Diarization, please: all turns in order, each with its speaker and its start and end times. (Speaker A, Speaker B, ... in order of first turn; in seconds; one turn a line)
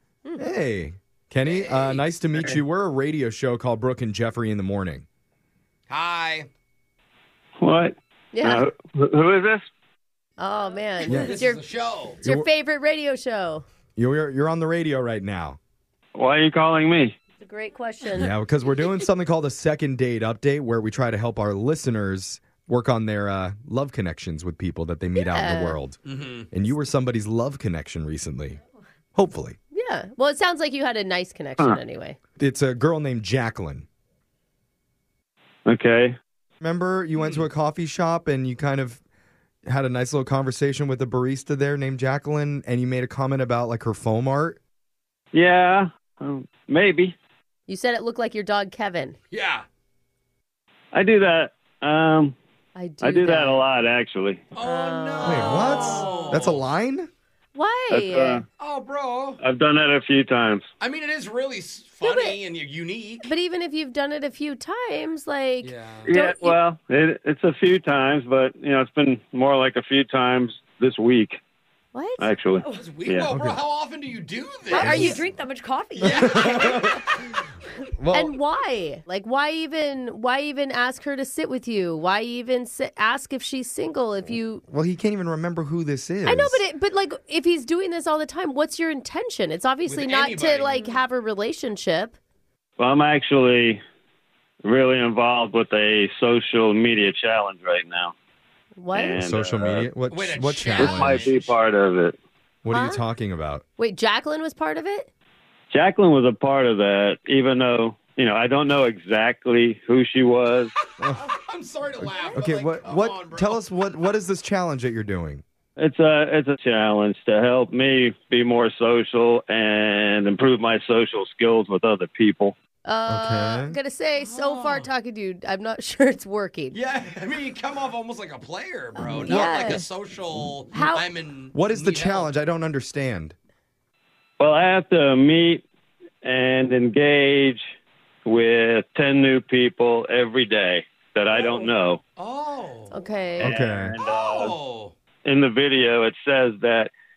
Speaker A: 0.4-5.0
Speaker B: 1.4-2.0
Speaker B: 5.9-6.5
Speaker C: 7.6-9.6
Speaker D: 8.3-8.6
Speaker D: 10.4-11.6
Speaker A: 11.1-11.3
Speaker B: 11.1-12.2
Speaker A: 12.2-12.5
Speaker D: 12.2-13.6
Speaker A: 13.9-15.6
Speaker C: 16.1-17.1
Speaker D: 17.4-18.3
Speaker A: 18.1-28.6
Speaker D: 25.2-25.8
Speaker B: 26.0-26.5
Speaker A: 29.1-29.6
Speaker D: 29.7-32.2
Speaker A: 32.4-33.9
Speaker C: 35.6-36.1
Speaker A: 36.6-39.0
Speaker B: 37.2-37.4
Speaker A: 39.6-44.6
Speaker C: 45.3-47.1
Speaker D: 47.7-49.2
Speaker B: 49.3-49.6
Speaker C: 50.9-52.3
Speaker D: 52.8-53.6
Speaker C: 53.0-54.4
Speaker B: 54.5-56.6
Speaker D: 54.6-56.1
Speaker A: 55.2-57.1
Speaker D: 57.5-58.4
Speaker C: 57.9-58.4
Speaker B: 58.6-59.4
Speaker C: 59.4-60.6
Speaker B: 60.8-63.3
Speaker D: 62.0-62.4
Speaker D: 63.2-66.6
Speaker B: 65.6-66.1
Speaker C: 66.1-71.4
Speaker D: 71.9-72.3
Speaker C: 72.2-73.3
Speaker B: 72.6-75.2
Speaker A: 73.3-73.6
Speaker E: 74.7-76.8
Speaker D: 74.7-75.2
Speaker A: 74.8-75.2
Speaker B: 76.0-77.0
Speaker A: 76.0-77.0
Speaker A: 78.0-78.4
Speaker D: 78.1-84.6
Speaker A: 84.7-86.6
Speaker D: 86.2-92.2
Speaker B: 89.9-90.9
Speaker C: 92.8-93.8
Speaker C: 94.6-98.1
Speaker D: 98.8-99.2
Speaker C: 98.9-99.9
Speaker A: 99.2-101.3
Speaker B: 100.1-101.6
Speaker C: 100.7-102.1
Speaker A: 102.6-103.6
Speaker D: 102.7-103.0
Speaker D: 103.8-105.1
Speaker C: 105.7-110.7
Speaker A: 111.0-111.3
Speaker B: 111.2-113.6
Speaker A: 112.0-115.4
Speaker C: 115.8-122.5
Speaker D: 122.8-126.8
Speaker A: 123.1-123.8
Speaker B: 124.2-124.9
Speaker B: 126.7-132.3
Speaker D: 129.0-129.9
Speaker D: 130.7-131.1
Speaker A: 131.5-133.3
Speaker C: 134.4-135.6
Speaker C: 136.2-137.6
Speaker C: 138.3-142.0
Speaker B: 141.3-143.0
Speaker D: 142.9-143.5
Speaker A: 143.4-143.9
Speaker C: 143.4-144.6
Speaker B: 144.0-144.9
Speaker C: 145.2-146.9